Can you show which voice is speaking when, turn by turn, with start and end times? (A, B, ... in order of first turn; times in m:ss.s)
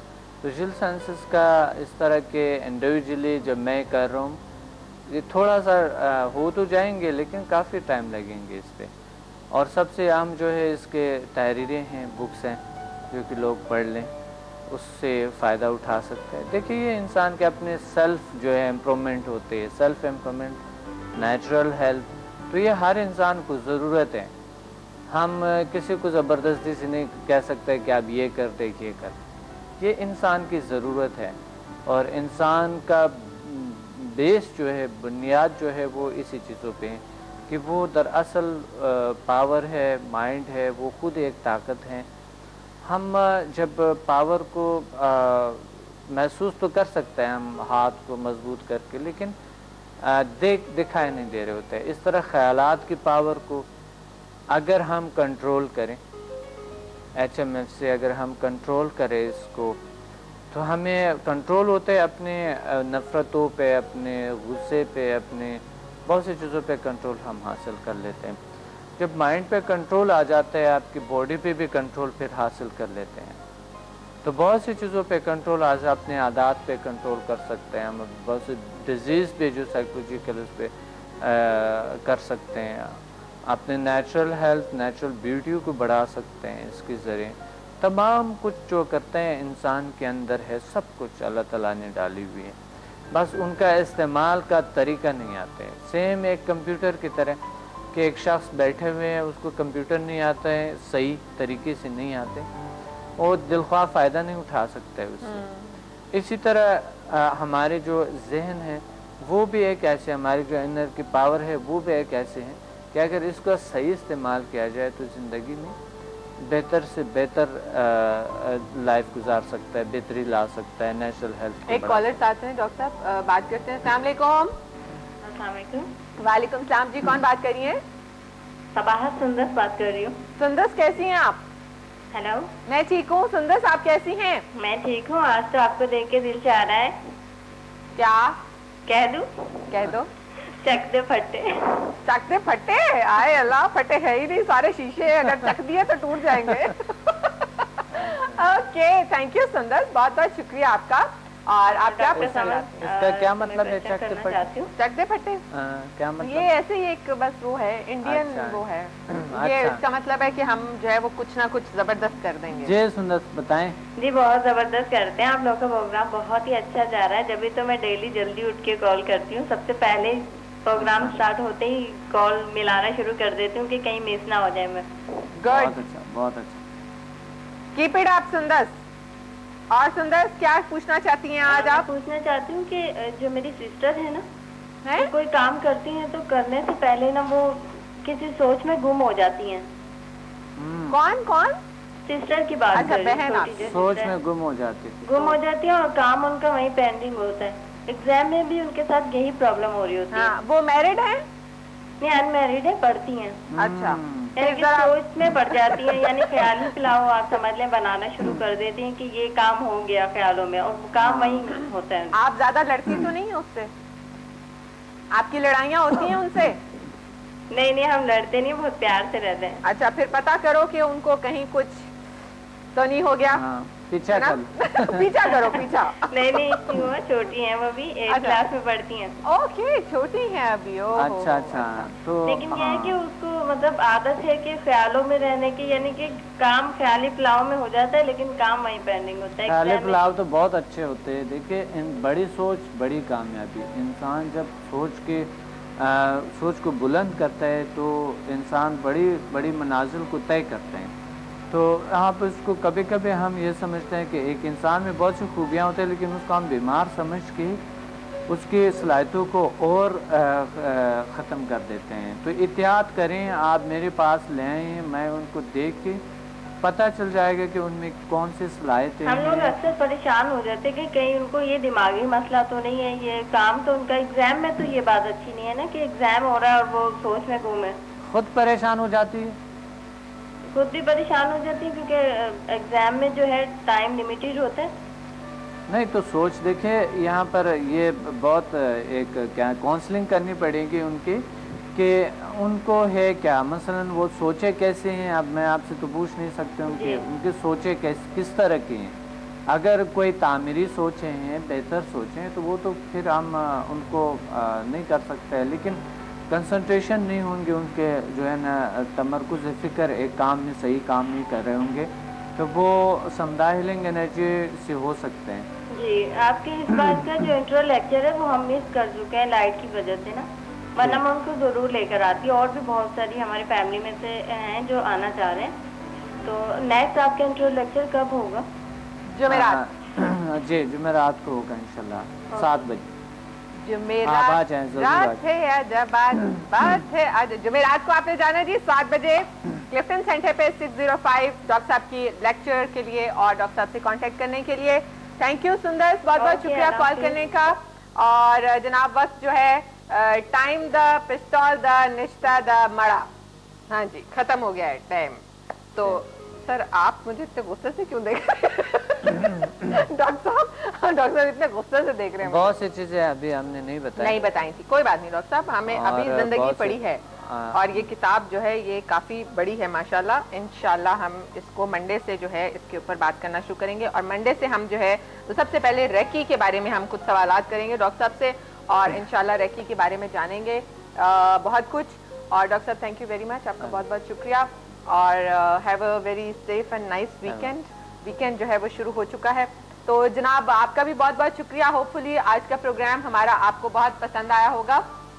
0:00.4-0:04.4 A
0:05.1-0:08.9 A
0:09.5-0:14.1 A
0:14.7-0:20.6 A
0:21.1-0:24.3 A
0:25.1-0:29.2 A
0:29.8-0:42.1 A
0:42.8-0:49.3 A
0:50.0-0:53.7 A
0:54.5-0:56.0 A
0:57.2-0:59.8 A
1:00.5-1:08.4 A
1:09.0-1:13.4 A
1:14.2-1:32.6 A
1:33.1-1:37.4 A
1:37.9-1:42.5 A
1:43.2-1:45.4 A
1:45.2-1:45.8 B
1:46.1-1:55.7 A
1:56.4-2:02.1 A
2:01.7-2:04.5 B
2:05.2-2:05.9 C
2:06.2-2:07.8 B
2:08.7-2:10.1 C
2:10.4-2:11.4 B
2:12.1-2:12.5 C
2:12.6-2:14.4 B
2:14.5-2:17.0 C
2:18.0-2:18.4 B
2:18.8-2:19.6 C
2:19.7-2:20.1 B
2:20.5-2:21.9 C
2:22.0-2:32.8 B
2:27.9-2:28.5 A
2:31.7-2:34.7 C
2:32.1-2:34.4 A
2:34.8-2:35.5 B
2:35.5-2:36.5 A
2:36.2-2:42.7 B
2:38.0-2:39.8 A
2:42.5-2:43.8 A
2:44.0-2:54.8 C
2:50.8-2:51.1 A
2:55.4-2:55.8 B
2:55.4-2:56.6 A
2:57.7-2:58.7 B
2:59.7-3:01.9 B
3:01.4-3:04.2 C
3:04.8-3:05.1 B
3:05.0-3:09.6 C
3:10.6-3:11.0 A
3:10.9-3:11.5 B
3:12.0-3:14.1 C
3:12.7-3:13.7 B
3:13.6-3:15.1 A
3:15.0-3:20.3 C
3:20.1-3:21.2 B
3:22.0-3:23.4 C
3:23.5-3:24.4 A
3:23.6-3:26.5 B
3:24.4-3:32.2 C
3:32.1-3:33.7 B
3:35.1-3:36.6 B
3:37.5-3:39.6 C
3:39.6-3:41.9 B
3:42.7-3:43.4 B
3:43.3-3:45.3 A
3:44.1-3:46.8 B
3:46.1-3:49.1 C
3:48.1-3:48.4 B
3:49.2-3:51.9 B
3:50.9-3:53.0 A
3:52.2-4:00.1 C
3:59.5-4:10.9 A
4:11.5-4:17.6 A
4:18.3-4:26.0 A
4:26.6-4:29.6 A
4:29.0-4:37.7 C
4:38.1-4:39.4 A
4:40.5-4:44.7 C
4:45.7-4:51.2 A
4:51.7-4:58.9 A
4:56.7-4:57.0 C
4:59.5-5:05.8 A
5:06.3-5:15.5 A
5:15.7-5:25.5 C
5:26.2-5:28.4 C
5:29.1-5:29.6 B
5:29.3-5:32.9 A
5:33.6-5:53.1 B
5:34.0-5:35.2 A
5:46.1-5:47.2 C
5:53.7-5:55.2 B
5:55.7-6:02.5 B
6:02.2-6:04.2 A
6:04.0-6:34.8 B
6:05.7-6:07.6 A
6:27.3-6:27.5 A